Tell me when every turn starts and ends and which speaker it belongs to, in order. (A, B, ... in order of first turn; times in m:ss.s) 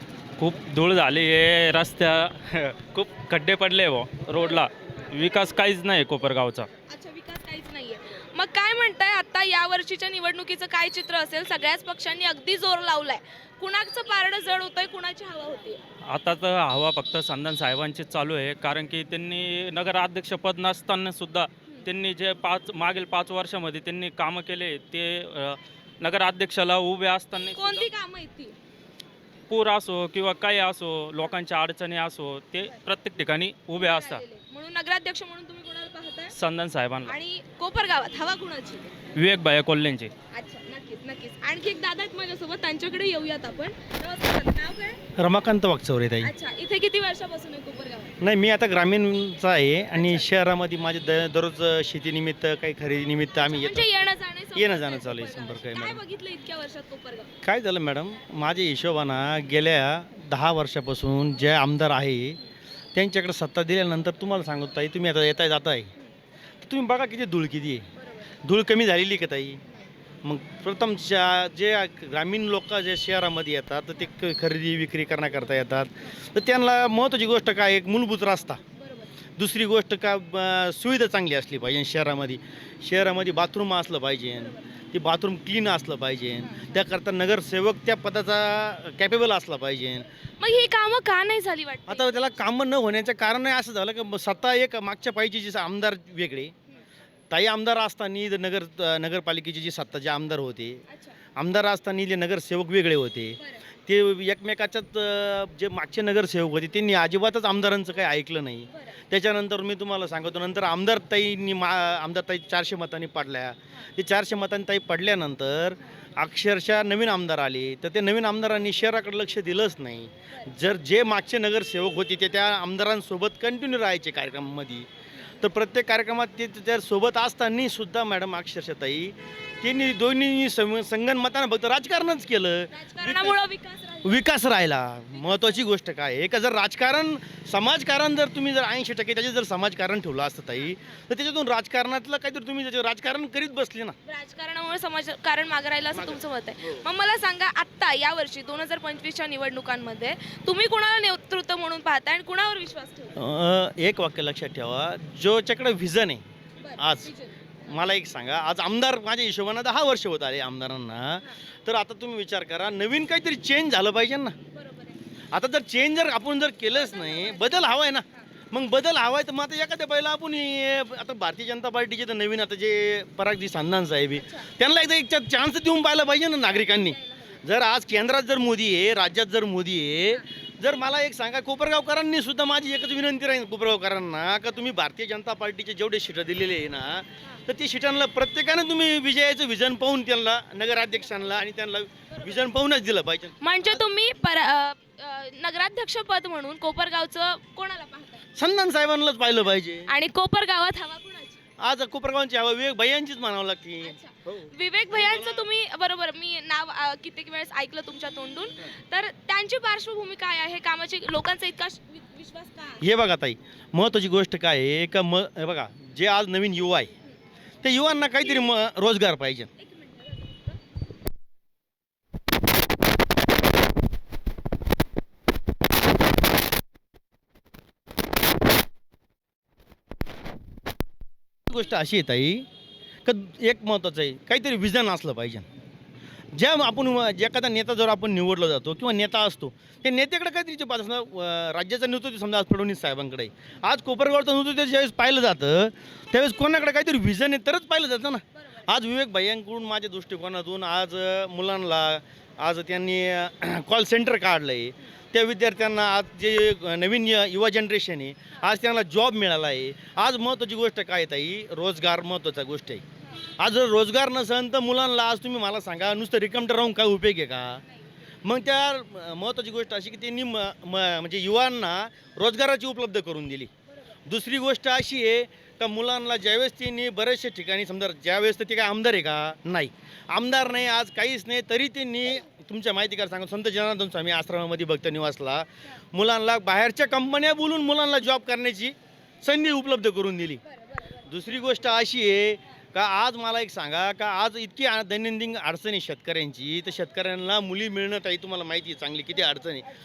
0:00.4-0:06.7 A
0:06.8-0:15.8 B
0:16.0-0:27.9 A
0:27.5-0:28.6 B
0:29.5-0:34.2 A
0:33.8-0:36.3 B
0:36.3-0:37.1 A
0:37.0-0:39.0 B
0:39.1-0:40.1 A
0:40.3-0:45.0 B
0:45.2-0:46.3 C
0:46.2-0:48.2 B
0:48.2-0:53.9 C
0:49.9-0:50.3 B
0:53.4-0:57.3 B
0:54.5-0:56.0 C
0:57.4-1:02.4 C
1:02.9-1:05.9 C
1:06.6-1:07.9 C
1:08.0-1:08.3 B
1:08.4-1:09.6 C
1:10.2-1:18.6 C
1:18.8-1:19.1 B
1:19.4-1:30.0 C
1:24.4-1:24.6 B
1:26.4-1:26.8 B
1:30.4-1:32.4 B
1:31.9-1:36.5 C
1:37.3-1:40.8 C
1:40.9-1:41.2 B
1:41.4-2:04.9 C
1:43.4-1:43.6 B
1:48.7-1:49.0 B
2:05.4-2:13.4 C
2:12.7-2:14.2 B
2:14.0-2:23.9 C
2:15.1-2:15.6 B
2:20.6-2:21.0 B
2:24.0-2:33.2 B
2:25.9-2:26.8 C
2:33.2-2:36.2 C
2:36.6-2:37.6 B
2:36.8-2:37.1 C
2:37.7-2:44.4 C
2:44.5-2:45.0 B
2:45.3-3:13.8 C
2:46.7-2:48.3 B
2:54.1-2:54.5 B
2:56.4-2:57.4 B
3:11.0-3:11.3 B
3:12.1-3:12.4 B
3:13.4-3:18.2 B
3:18.4-3:19.9 C
3:19.9-3:21.4 B
3:21.6-3:25.5 C
3:23.8-3:32.8 B
3:32.8-3:36.9 C
3:37.6-3:39.5 C
3:39.6-3:40.6 B
3:51.5-3:52.4 C
3:53.0-3:55.4 C
3:56.3-4:22.8 C
4:08.3-4:08.7 B
4:23.0-4:23.2 B
4:23.4-4:27.6 C
4:28.2-4:33.5 C
4:33.7-4:34.0 B
4:34.1-4:50.4 C
4:50.5-4:51.0 B
4:51.0-4:59.6 C